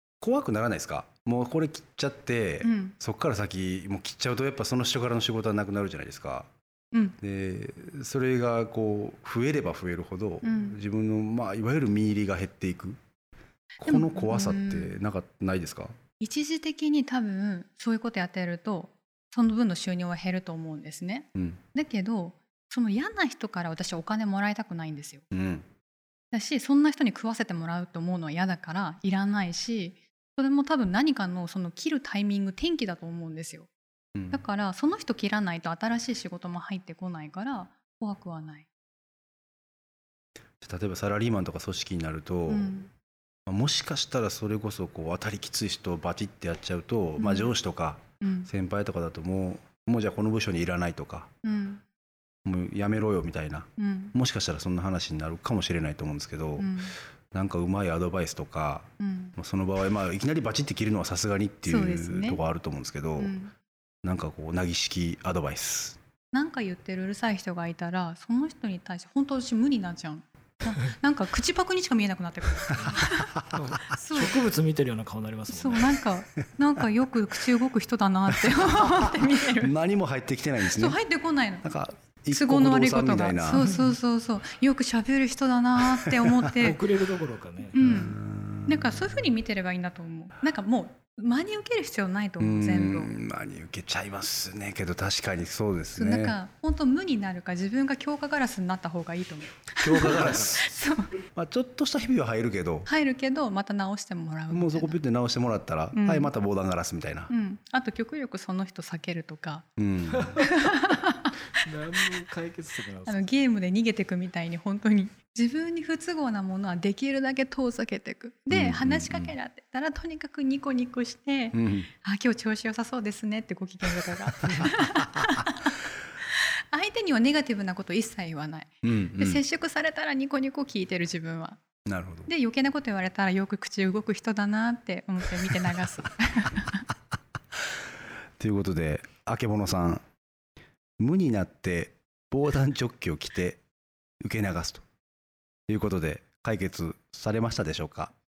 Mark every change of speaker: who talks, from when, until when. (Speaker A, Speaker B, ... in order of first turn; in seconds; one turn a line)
Speaker A: 0.2-6.5
Speaker B: 2.6-3.0
Speaker A: 7.2-13.0
Speaker B: 10.4-10.8
Speaker A: 13.8-15.9
Speaker B: 13.8-15.0
Speaker B: 16.2-25.2
Speaker A: 25.3-25.6
Speaker B: 26.3-33.7
Speaker A: 34.1-34.4
Speaker B: 34.3-38.7
Speaker A: 40.6-42.8
Speaker B: 42.5-42.9
Speaker A: 43.5-51.3
Speaker B: 47.2-47.5
Speaker B: 48.2-48.5
Speaker B: 51.4-51.8
Speaker A: 52.5-56.8
Speaker B: 53.8-54.1
Speaker B: 56.6-57.0
Speaker A: 57.3-63.4
Speaker B: 59.0-59.4
Speaker B: 61.7-62.4
Speaker B: 63.2-63.5
Speaker A: 64.0-66.0
Speaker B: 66.3-73.3
Speaker C: 73.5-76.0
Speaker B: 73.9-74.4
Speaker B: 75.5-79.7
Speaker A: 78.3-81.0
Speaker B: 80.7-81.7
Speaker A: 81.6-83.7
Speaker B: 82.3-86.8
Speaker A: 86.0-86.7
Speaker C: 86.6-87.9
Speaker B: 87.8-93.1
Speaker A: 87.8-89.3
Speaker A: 92.4-96.4
Speaker B: 96.0-101.1
Speaker A: 99.8-100.7
Speaker A: 101.3-102.9
Speaker B: 102.9-105.0
Speaker A: 104.5-107.3
Speaker B: 105.9-106.3
Speaker B: 107.3-109.7
Speaker A: 109.8-110.4
Speaker C: 110.2-110.5
Speaker B: 110.4-111.3
Speaker C: 111.6-113.3
Speaker B: 113.0-125.8
Speaker A: 118.5-119.3
Speaker A: 121.5-121.9
Speaker B: 126.3-131.6
Speaker A: 128.8-129.4
Speaker A: 131.9-132.3
Speaker B: 132.3-136.9
Speaker A: 138.4-140.0
Speaker A: 141.0-143.6
Speaker A: 144.2-144.8
Speaker A: 145.7-148.1